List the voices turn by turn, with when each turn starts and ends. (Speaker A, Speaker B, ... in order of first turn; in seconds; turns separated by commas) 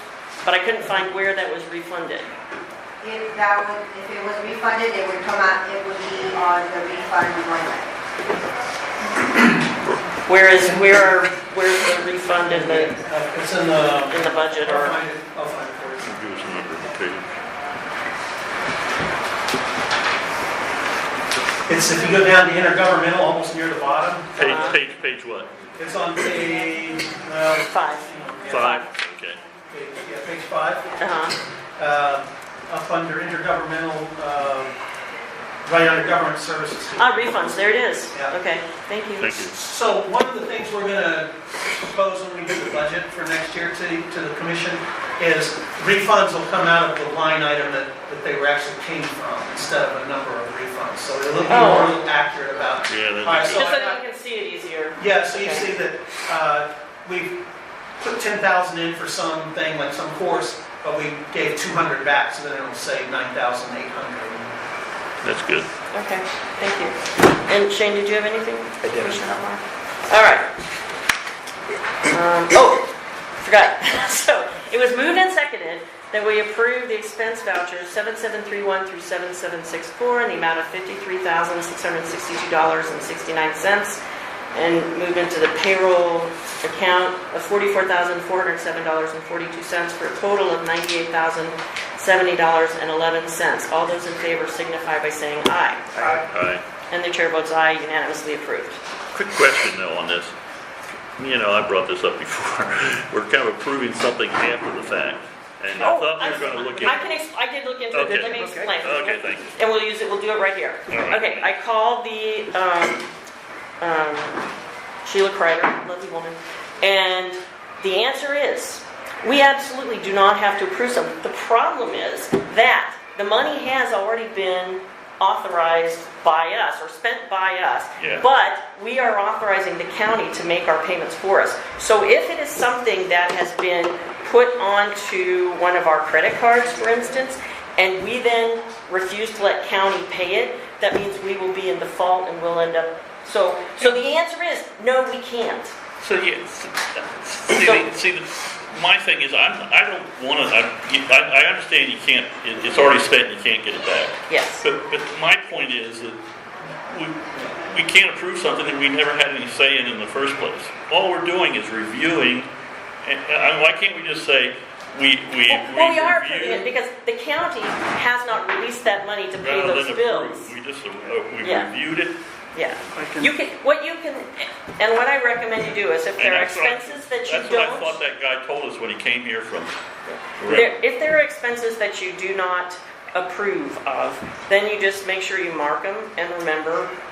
Speaker A: 0.4-2.3, Speaker B: 3.0-7.9, Speaker A: 10.3-13.0, Speaker C: 12.5-16.1, Speaker A: 14.1-15.0, Speaker D: 16.0-17.4, Speaker C: 21.7-24.7, Speaker D: 24.4-25.5, Speaker A: 24.4-24.8, Speaker C: 25.8-28.8, Speaker A: 27.7-28.9, Speaker D: 28.5-29.4, Speaker C: 29.7-30.9, Speaker A: 31.0-31.4, Speaker C: 31.8-34.7, Speaker C: 35.7-37.4, Speaker A: 37.0-39.4, Speaker D: 39.2-39.6, Speaker C: 39.5-54.0, Speaker A: 51.5-52.0, Speaker D: 52.9-53.7, Speaker A: 53.5-55.7, Speaker C: 55.0-57.4, Speaker C: 58.0-64.5, Speaker D: 65.2-65.7, Speaker A: 65.9-70.5, Speaker A: 72.1-84.0, Speaker A: 84.5-96.1, Speaker D: 96.0-96.6, Speaker A: 96.9-98.8, Speaker D: 99.1-100.3, Speaker D: 101.2-107.0, Speaker A: 105.8-113.1, Speaker D: 107.9-109.5, Speaker D: 110.9-111.5, Speaker A: 113.8-114.5, Speaker A: 115.0-145.7, Speaker D: 128.0-128.3, Speaker D: 146.0-156.2, Speaker A: 147.6-147.9, Speaker A: 154.3-154.7, Speaker D: 156.9-162.5, Speaker D: 163.0-166.7, Speaker A: 165.5-170.5, Speaker D: 169.4-172.2, Speaker A: 171.4-171.7, Speaker A: 172.6-178.0, Speaker C: 172.9-173.3, Speaker D: 176.2-179.8, Speaker A: 180.1-186.9, Speaker D: 180.4-180.7